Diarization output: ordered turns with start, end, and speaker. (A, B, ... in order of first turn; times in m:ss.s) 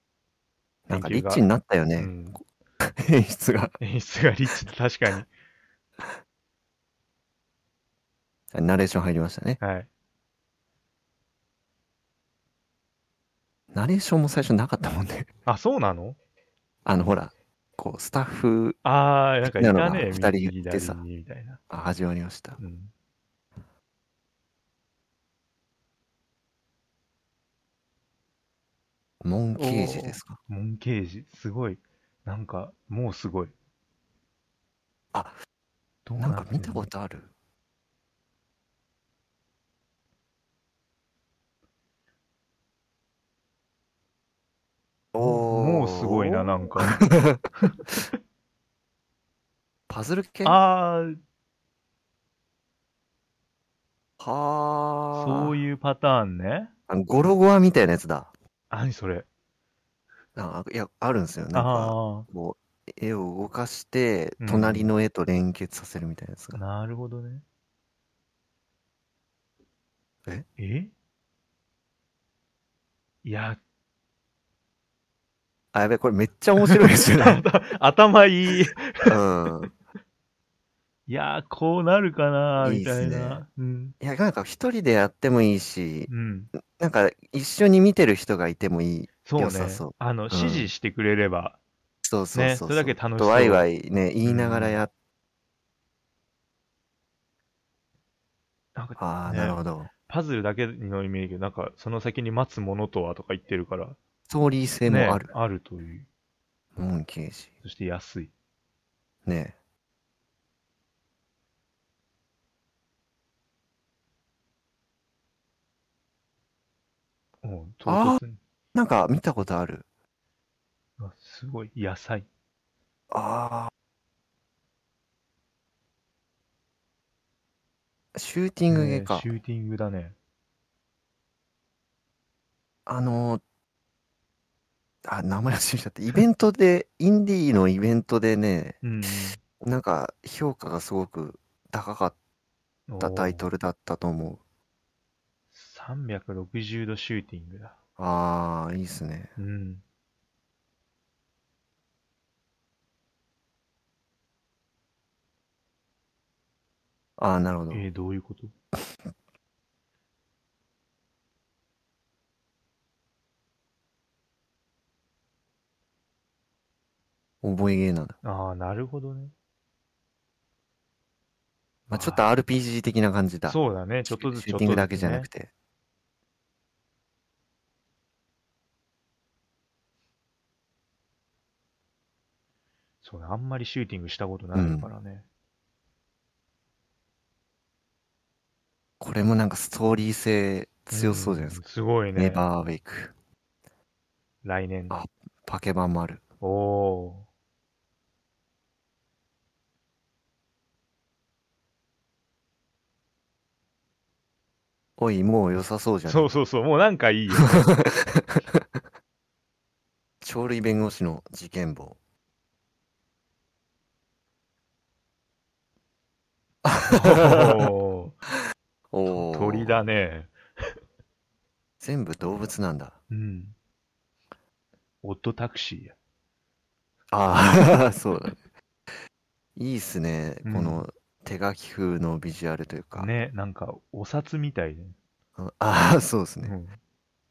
0:00.9-0:02.2 A
0:00.9-0:01.4 B
0:02.0-0:02.4 B
0:02.8-0:03.7 A
0:03.8-0:05.3 B
0:08.5-0:09.6 A
0:09.6-0:09.9 B
0:13.7-0:15.3 A
0:15.5-0:16.2 B
0:16.8-0:18.8 A
0:18.8-0:21.6 B
0:19.4-0:21.0 A
0:21.7-0:22.6 A
0:22.6-0:22.9 B
0:29.2-0:30.4 A
0:29.5-0:33.5 B
0:36.1-0:37.3 A
0:36.2-0:36.9 B
0:45.1-0:47.4 A
0:45.2-0:47.0 B
0:47.5-0:48.1 B
0:49.9-0:50.6 A
0:50.4-0:51.2 B
0:54.2-0:55.6 A
0:55.1-0:56.7 B
0:56.9-0:58.3 A
0:58.7-0:59.3 B
1:00.4-1:06.6 A
1:01.5-1:02.3 B
1:04.4-1:04.9 B
1:06.5-1:07.4 B
1:10.6-1:10.9 B
1:13.2-1:13.6 B
1:15.7-1:17.4 A
1:16.7-1:19.7 B
1:19.0-1:19.7 A
1:21.1-1:23.9 B
1:22.6-1:23.4 A
1:24.0-1:26.1 A
1:26.1-1:26.5 B
1:26.6-1:30.7 A
1:29.2-1:31.6 B
1:32.0-1:34.9 A
1:32.3-1:33.7 B
1:34.2-1:34.8 B
1:38.8-1:44.0 B
1:39.0-1:39.9 A
1:44.3-1:45.3 A
1:44.8-1:46.1 B
1:46.8-1:47.5 A
1:47.6-1:48.3 B
1:49.2-1:49.5 A
1:57.4-1:58.4 B
1:57.8-1:58.2 A
1:58.7-1:59.8 A
2:01.0-2:02.3 B
2:03.1-2:03.7 A
2:08.1-2:09.3 A
2:08.7-2:10.2 B
2:12.8-2:13.4 A
2:15.0-2:18.8 A
2:18.8-2:19.4 B
2:19.4-2:22.1 A
2:22.9-2:23.5 B
2:23.0-2:24.4 A
2:25.5-2:27.7 B
2:28.0-2:29.3 A
2:29.4-2:29.8 B
2:37.2-2:37.8 A
2:37.7-2:38.5 B
2:47.4-2:48.2 A
2:48.2-2:49.3 B
2:51.9-2:55.5 A
2:51.9-2:52.2 B
2:53.5-2:55.3 B
3:03.0-3:05.2 B
3:04.5-3:04.9 A
3:09.0-3:11.6 A
3:10.9-3:12.4 B
3:12.2-3:13.1 A
3:14.4-3:15.0 B
3:14.9-3:16.2 A
3:16.4-3:17.2 B
3:25.0-3:26.3 A
3:26.1-3:27.7 B
3:27.4-3:28.6 A
3:30.2-3:32.0 A
3:36.6-3:37.7 A
3:36.9-3:38.2 B
3:38.9-3:39.8 A
3:39.1-3:40.7 B
3:41.8-3:43.0 A
3:43.1-3:43.5 B
3:45.0-3:45.9 B
3:47.1-3:48.4 A
3:49.6-3:53.1 A
3:50.4-3:50.8 B
3:53.0-3:55.0 B
3:55.4-3:56.5 A
3:56.4-3:56.8 B